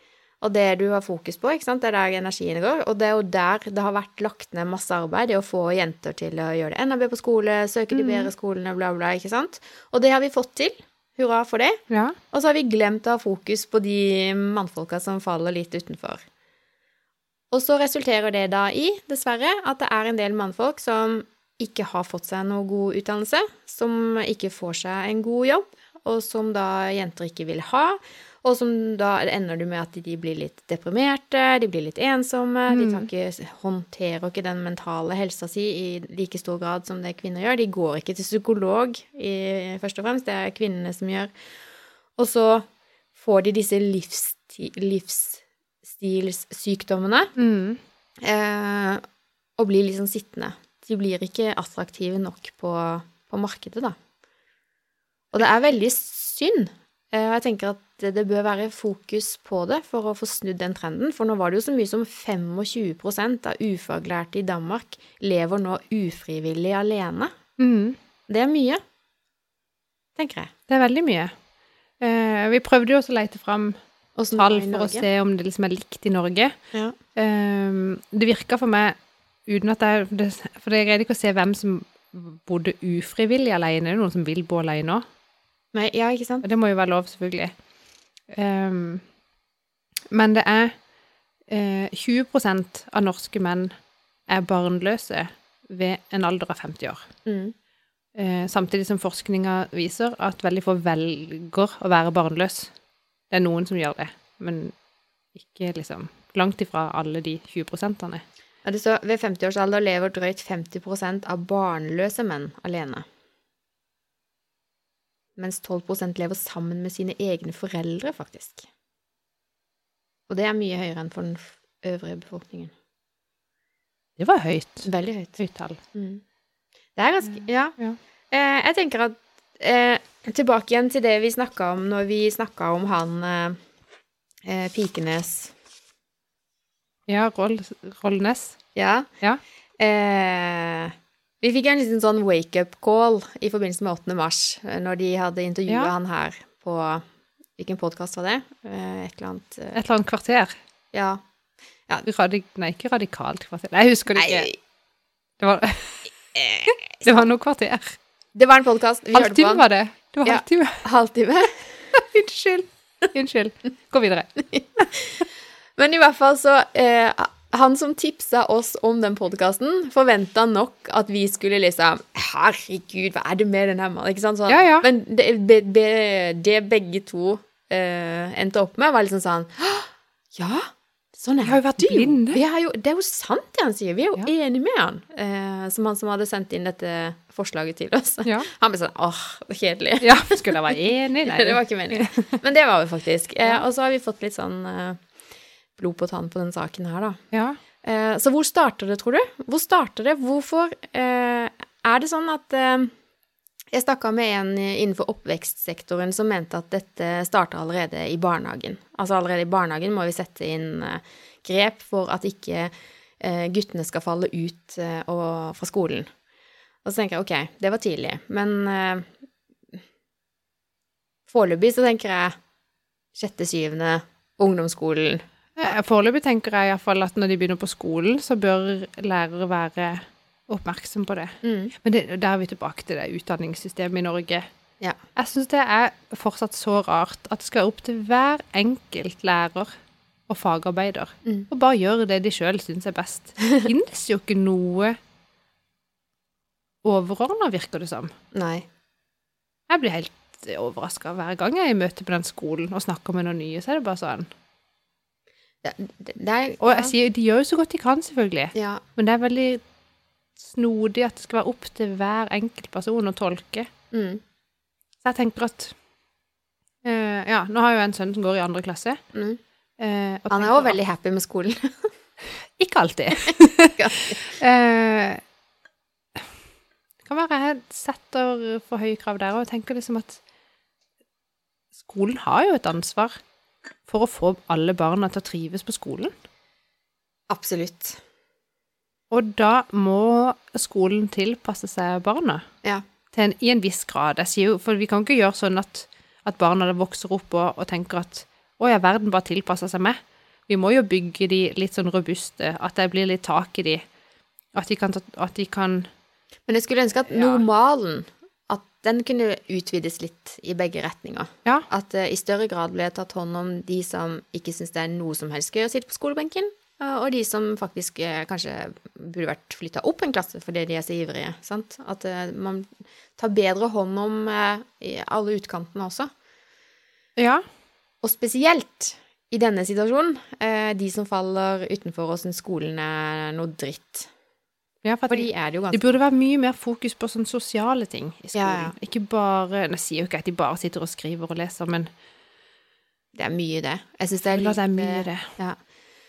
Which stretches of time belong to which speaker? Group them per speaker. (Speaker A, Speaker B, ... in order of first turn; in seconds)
Speaker A: 0.4-16.2, 17.5-41.3, 42.1-42.6, 43.1-47.3, 48.2-49.0, 49.6-54.0, 55.3-67.3, 68.3-68.8, 70.2-70.5, 74.2-75.0, 85.7-86.4, 97.2-97.5, 108.6-113.0, 115.4-118.7, 120.3-122.7, 124.8-125.4, 125.9-126.2, 127.0-127.8, 128.3-133.6, 134.4-135.5, 138.7-139.1, 139.8-147.0, 147.6-149.8, 150.9-151.2, 154.2-154.6, 156.3-157.2, 158.3-159.6, 160.2-161.9, 164.4-165.2, 165.8-195.1, 195.8-197.2, 197.8-202.9, 203.7-216.1, 216.8-219.1, 221.3-222.3, 223.1-225.2, 231.4-231.7, 243.4-243.6, 248.3-248.7, 255.6-256.9, 258.5-258.8, 263.9-264.2, 269.1-269.4, 270.3-271.9, 273.2-274.2, 287.3-288.0, 306.5-326.1, 328.0-334.1, 335.1-336.0, 338.3-338.7, 343.1-345.6
Speaker B: 7.9-8.3, 11.9-12.2, 32.7-33.1, 47.4-47.8, 67.6-68.0, 70.7-71.3, 72.0-73.8, 74.3-76.5, 77.2-78.9, 79.5-85.0, 86.4-87.5, 88.3-89.0, 90.1-90.8, 91.5-93.7, 94.3-97.1, 98.2-102.7, 103.3-104.7, 105.3-108.2, 124.2-125.8, 137.1-138.6, 149.7-150.5, 152.0-154.5, 155.4-156.1, 156.7-157.9, 159.1-160.8, 161.9-164.9, 174.5-174.8, 181.4-182.4, 190.0-192.3, 197.3-197.6, 225.6-234.4, 235.2-239.7, 240.3-244.9, 246.8-248.1, 249.7-254.3, 256.6-259.6, 260.4-263.7, 265.0-265.7, 266.8-269.0, 269.8-270.8, 272.4-275.2, 277.0-280.2, 281.8-283.1, 283.9-286.1, 289.1-292.4, 293.1-303.8, 304.5-305.9, 307.1-307.4, 327.1-327.4, 334.8-341.9, 344.2-345.3